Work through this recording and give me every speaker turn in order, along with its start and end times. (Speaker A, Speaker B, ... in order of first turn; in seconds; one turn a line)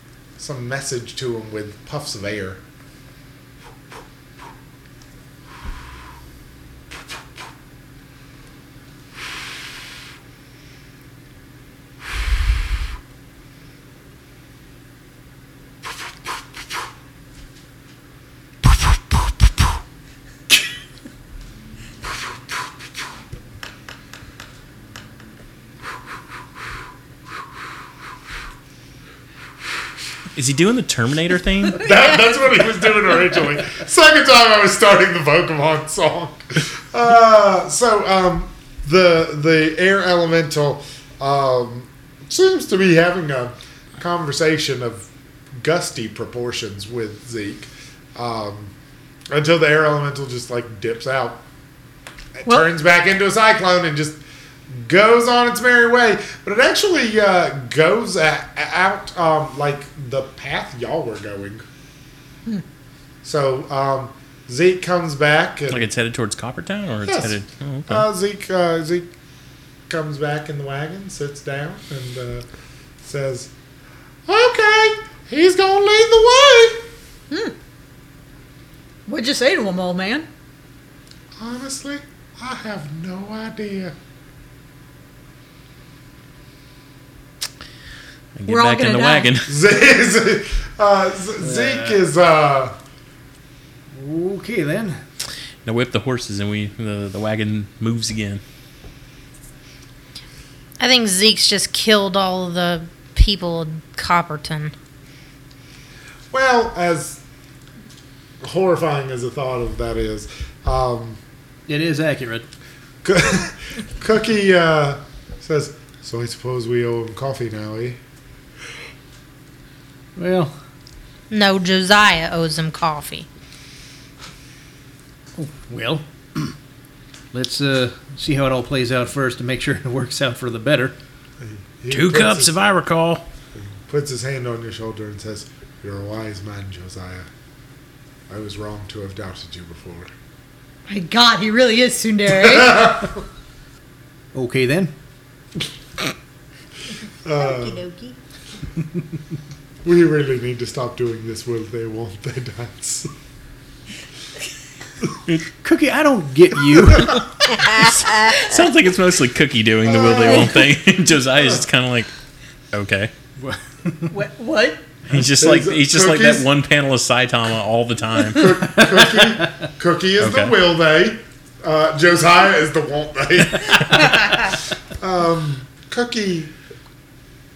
Speaker A: 0.4-2.6
Speaker B: 30.4-31.9
Speaker A: 31.8-48.7
Speaker A: 49.3-51.4
Speaker A: 52.4-61.6
Speaker A: 63.2-65.9
Speaker B: 65.7-68.1
Speaker A: 67.1-69.1
Speaker A: 69.9-72.5
Speaker A: 73.0-73.5
Speaker A: 74.3-76.9
Speaker C: 79.1-80.3
Speaker A: 81.4-84.0
Speaker B: 88.3-89.5
Speaker C: 88.5-89.3
Speaker A: 89.5-92.8
Speaker D: 91.4-92.0
Speaker D: 93.9-95.0
Speaker B: 95.7-98.4
Speaker E: 100.8-104.7
Speaker A: 106.3-107.2
Speaker A: 108.4-111.2
Speaker D: 111.7-112.5
Speaker A: 113.0-118.0
Speaker D: 120.2-120.5
Speaker E: 121.3-123.3
Speaker D: 125.4-126.5
Speaker D: 127.3-130.9
Speaker A: 131.4-132.5
Speaker B: 131.9-133.2
Speaker A: 133.6-137.3
Speaker A: 138.3-140.1
Speaker C: 140.9-142.9
Speaker A: 142.3-143.2
Speaker D: 144.3-144.9
Speaker A: 147.2-147.8
Speaker E: 147.6-148.2
Speaker A: 149.8-153.1
Speaker D: 155.6-157.2
Speaker B: 157.7-162.1
Speaker A: 159.8-160.7
Speaker B: 162.7-163.1
Speaker D: 163.4-164.1
Speaker C: 164.1-164.8
Speaker B: 165.1-168.6
Speaker A: 165.4-166.5
Speaker A: 168.3-176.5
Speaker D: 168.7-169.5
Speaker B: 170.2-170.6